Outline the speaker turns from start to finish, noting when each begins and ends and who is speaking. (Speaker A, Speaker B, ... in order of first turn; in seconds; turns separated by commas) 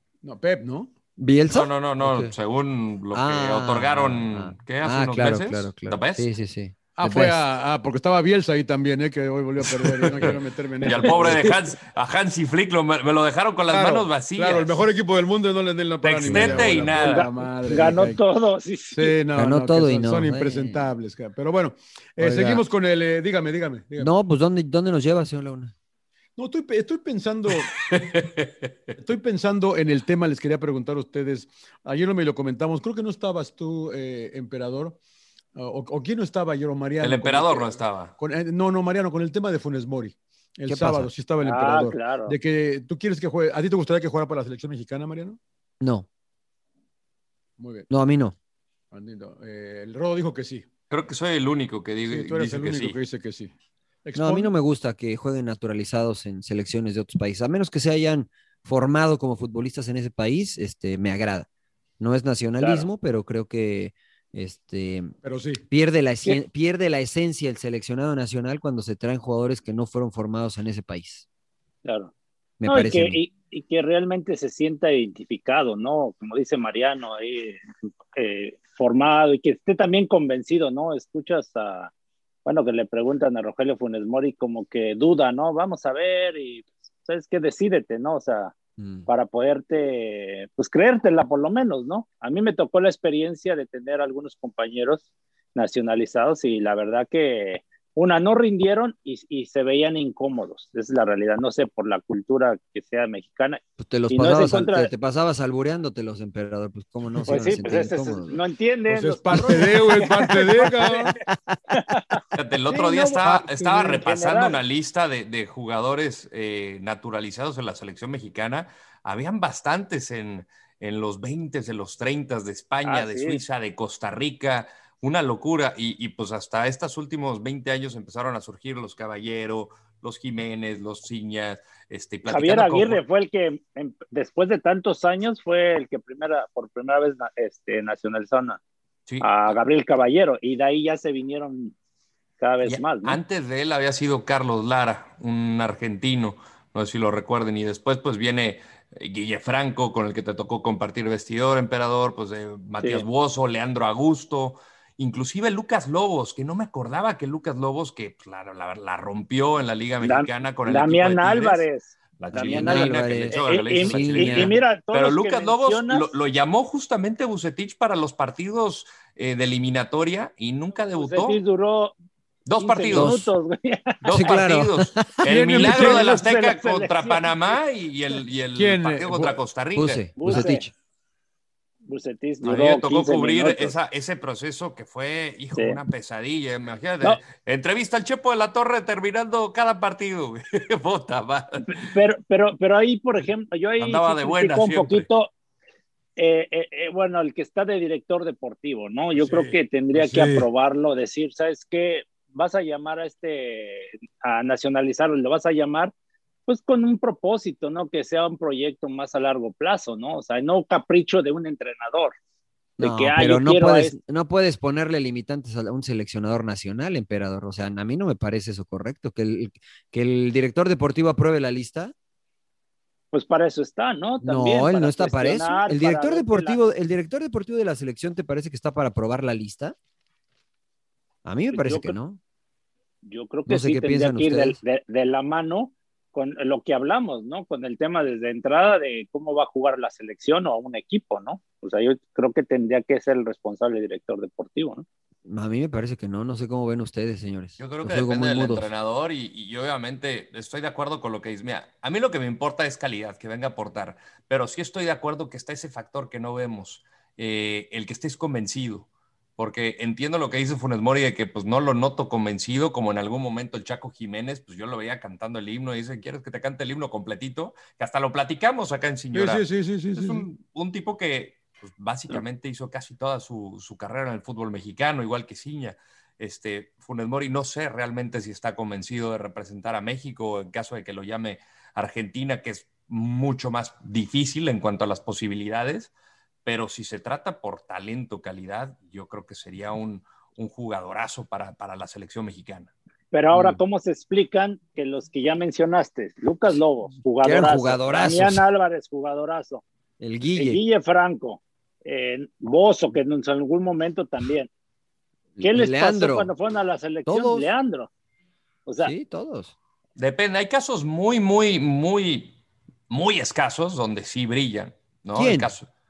Speaker A: 0.2-0.9, Speaker B: 1.2-2.3, Speaker C: 1.5-6.3, Speaker B: 3.1-7.4, Speaker A: 7.0-11.6, Speaker C: 10.0-14.9, Speaker A: 13.7-18.2, Speaker C: 16.0-17.3, Speaker B: 16.3-16.7, Speaker D: 16.9-19.1, Speaker A: 18.9-24.1, Speaker B: 19.4-20.9, Speaker B: 22.2-22.6, Speaker B: 24.0-25.7, Speaker A: 26.4-27.9, Speaker C: 27.5-28.9, Speaker A: 29.0-35.0, Speaker A: 35.5-45.4, Speaker C: 37.0-38.1, Speaker B: 40.7-41.1, Speaker D: 41.4-42.4, Speaker B: 45.8-46.1, Speaker A: 47.6-47.9, Speaker B: 47.9-48.4, Speaker A: 48.9-50.7, Speaker C: 50.9-53.0, Speaker A: 52.1-53.5, Speaker A: 54.0-54.5, Speaker B: 54.1-61.5, Speaker B: 62.0-65.1, Speaker D: 62.6-62.9, Speaker A: 65.2-65.6, Speaker B: 65.7-71.2, Speaker D: 71.8-72.1, Speaker B: 72.6-73.2, Speaker D: 72.7-81.9, Speaker D: 82.5-88.5, Speaker B: 88.8-89.1, Speaker D: 89.1-95.0, Speaker D: 95.5-104.9, Speaker B: 103.8-108.4, Speaker A: 107.1-107.5, Speaker D: 107.3-111.1, Speaker A: 108.9-111.1, Speaker B: 110.8-111.6, Speaker D: 111.7-114.6, Speaker C: 112.3-133.0, Speaker A: 113.2-113.9, Speaker D: 122.8-123.4, Speaker D: 132.3-138.6, Speaker D: 139.2-141.8, Speaker D: 142.4-143.2, Speaker C: 142.6-161.7, Speaker D: 160.0-166.1, Speaker C: 162.2-171.4, Speaker B: 162.3-164.6, Speaker D: 171.0-171.9, Speaker C: 172.5-173.2, Speaker D: 172.6-174.3, Speaker B: 172.9-173.3, Speaker C: 174.0-180.5, Speaker B: 174.1-175.2, Speaker A: 175.3-176.1, Speaker D: 175.7-177.6, Speaker A: 178.5-179.4, Speaker B: 179.8-180.7, Speaker D: 180.2-180.7, Speaker D: 181.9-183.8, Speaker C: 182.4-191.9, Speaker D: 191.7-195.3, Speaker C: 193.8-195.1, Speaker D: 196.2-205.9, Speaker A: 199.2-200.5, Speaker D: 206.5-212.1, Speaker D: 212.8-213.9, Speaker B: 212.8-221.9, Speaker D: 223.1-226.6, Speaker B: 224.2-229.8, Speaker B: 231.2-232.2, Speaker D: 231.5-231.9, Speaker D: 233.0-244.8, Speaker B: 233.5-234.6, Speaker B: 245.2-248.7, Speaker C: 247.6-285.9, Speaker A: 269.1-270.3, Speaker C: 286.4-292.7, Speaker D: 293.1-299.6, Speaker B: 297.2-298.4, Speaker B: 300.0-300.6, Speaker D: 300.4-304.5, Speaker B: 305.4-306.3, Speaker D: 305.4-307.9, Speaker B: 307.1-307.5, Speaker D: 308.7-308.9, Speaker B: 308.8-309.6, Speaker C: 310.0-312.4, Speaker C: 312.9-315.7, Speaker B: 315.1-315.5